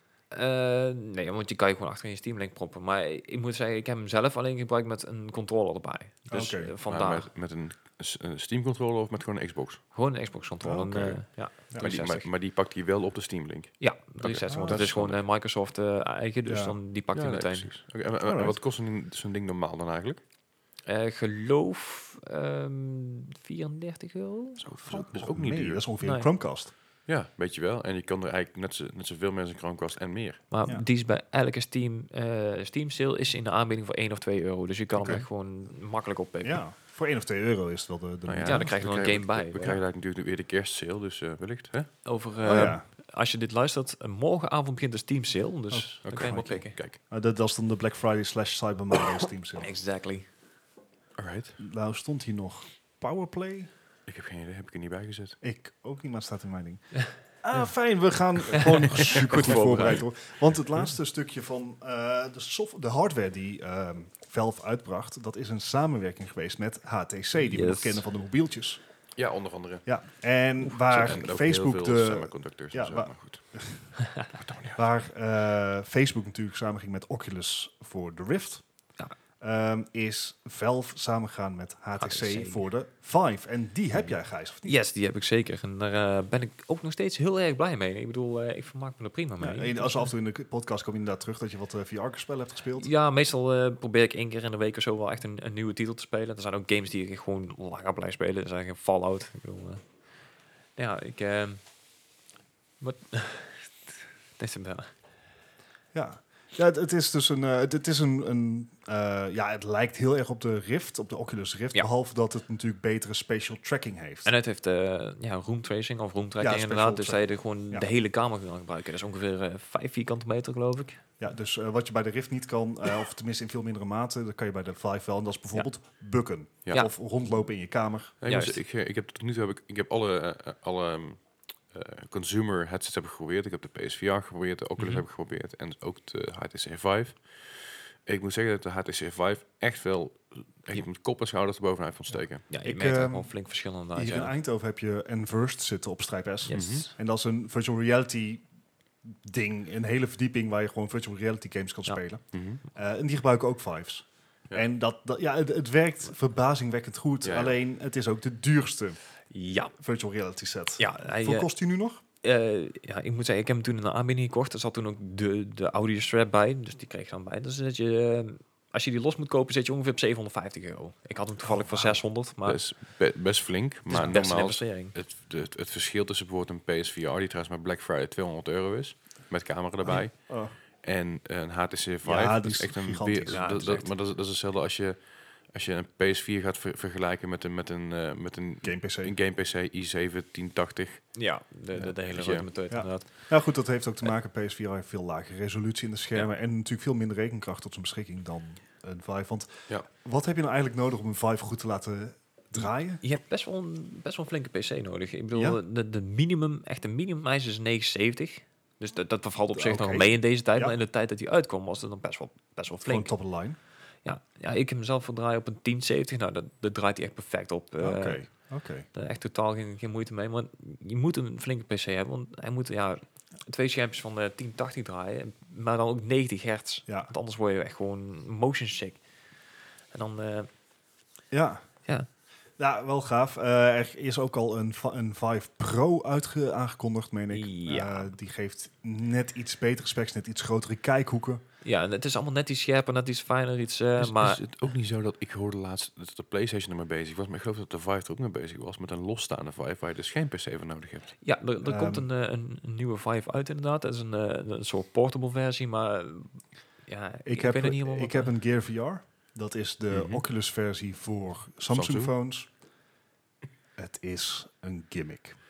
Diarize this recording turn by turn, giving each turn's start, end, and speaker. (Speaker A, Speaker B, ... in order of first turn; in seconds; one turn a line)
Speaker A: 0.3-7.3
Speaker B: 6.3-6.7
Speaker C: 6.9-9.8
Speaker A: 9.9-12.3
Speaker B: 10.6-12.1
Speaker C: 11.8-15.2
Speaker A: 13.8-17.7
Speaker B: 14.5-14.8
Speaker B: 16.5-16.8
Speaker C: 17.1-20.2
Speaker B: 18.2-18.6
Speaker A: 20.9-24.7
Speaker C: 24.6-25.8
Speaker B: 24.8-26.7
Speaker A: 26.0-26.3
Speaker C: 27.1-30.4
Speaker A: 30.5-36.6
Speaker B: 35.0-35.2
Speaker B: 36.4-38.7
Speaker C: 38.3-41.9
Speaker A: 38.5-39.8
Speaker A: 42.0-46.8
Speaker B: 42.4-42.8
Speaker B: 45.7-46.4
Speaker C: 46.0-47.0
Speaker B: 47.1-49.7
Speaker A: 49.6-50.3
Speaker C: 51.2-51.6
Speaker B: 51.6-53.7
Speaker C: 54.1-55.4
Speaker B: 55.4-68.8
Speaker A: 58.6-60.0
Speaker A: 67.4-68.0
Speaker C: 69.2-69.9
Speaker B: 69.9-74.0
Speaker C: 70.8-73.4
Speaker C: 74.3-74.8
Speaker B: 74.8-78.6
Speaker B: 79.4-84.8
Speaker A: 82.0-82.6
Speaker A: 84.6-90.1
Speaker B: 89.4-92.9
Speaker A: 92.8-99.8
Speaker A: 100.8-101.6
Speaker A: 102.8-103.7
Speaker A: 104.4-104.9
Speaker B: 105.9-114.3
Speaker A: 114.2-121.0
Speaker B: 116.4-117.9
Speaker B: 121.2-128.2
Speaker C: 128.2-142.5
Speaker A: 128.2-128.6
Speaker A: 134.8-135.0
Speaker A: 142.5-144.3
Speaker B: 142.6-143.3
Speaker B: 143.9-148.4
Speaker A: 146.4-146.9
Speaker C: 146.5-146.9
Speaker B: 149.0-159.0
Speaker C: 152.3-152.6
Speaker C: 157.2-157.6
Speaker A: 159.3-159.7
Speaker B: 159.8-162.0
Speaker A: 160.8-161.5
Speaker A: 162.2-172.6
Speaker B: 171.4-172.0
Speaker C: 172.4-191.1
Speaker A: 173.9-174.9
Speaker B: 179.8-180.5
Speaker B: 182.0-183.6
Speaker A: 183.3-183.9
Speaker B: 188.6-189.2
Speaker A: 191.2-193.2
Speaker C: 192.1-192.5
Speaker B: 192.7-203.0
Speaker A: 203.0-213.2
Speaker B: 205.3-205.6
Speaker B: 209.5-210.8
Speaker B: 212.8-213.6
Speaker A: 214.1-218.2
Speaker B: 217.8-218.9
Speaker A: 218.9-229.0
Speaker B: 226.9-227.1
Speaker A: 229.9-230.5
Speaker B: 231.3-231.7
Speaker B: 232.6-241.4
Speaker A: 237.3-238.1
Speaker A: 241.6-244.4
Speaker C: 244.0-251.2
Speaker A: 251.2-258.3
Speaker B: 251.6-252.1
Speaker B: 257.2-262.5
Speaker C: 259.9-260.2
Speaker C: 261.7-262.1
Speaker B: 263.8-265.4